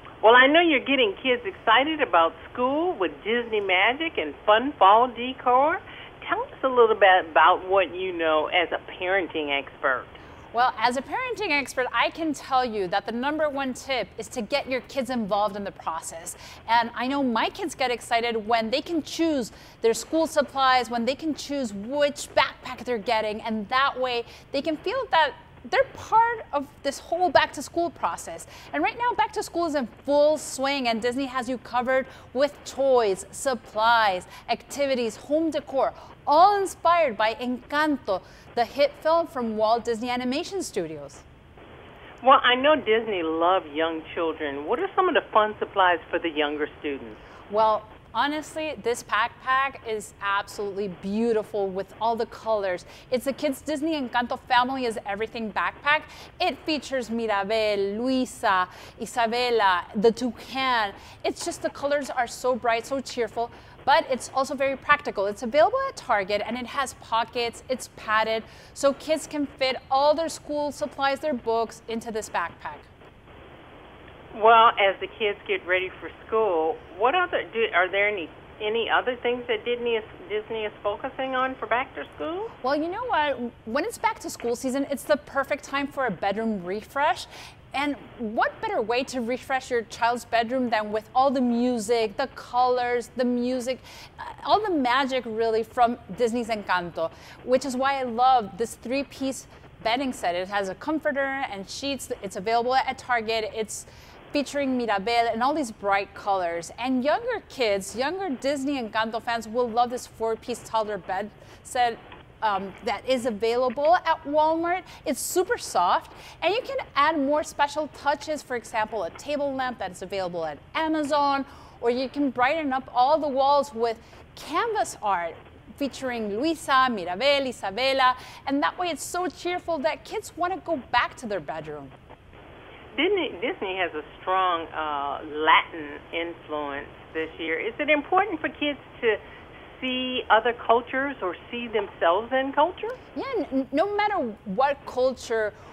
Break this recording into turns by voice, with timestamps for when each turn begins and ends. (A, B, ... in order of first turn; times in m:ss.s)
0:00.2-0:10.2 A
0:10.5-0:41.2 B
0:42.2-0:47.2 A
0:47.5-1:12.9 B
1:14.3-1:22.5 A
1:22.6-2:11.9 B
2:12.9-2:23.0 A
2:23.2-2:25.5 B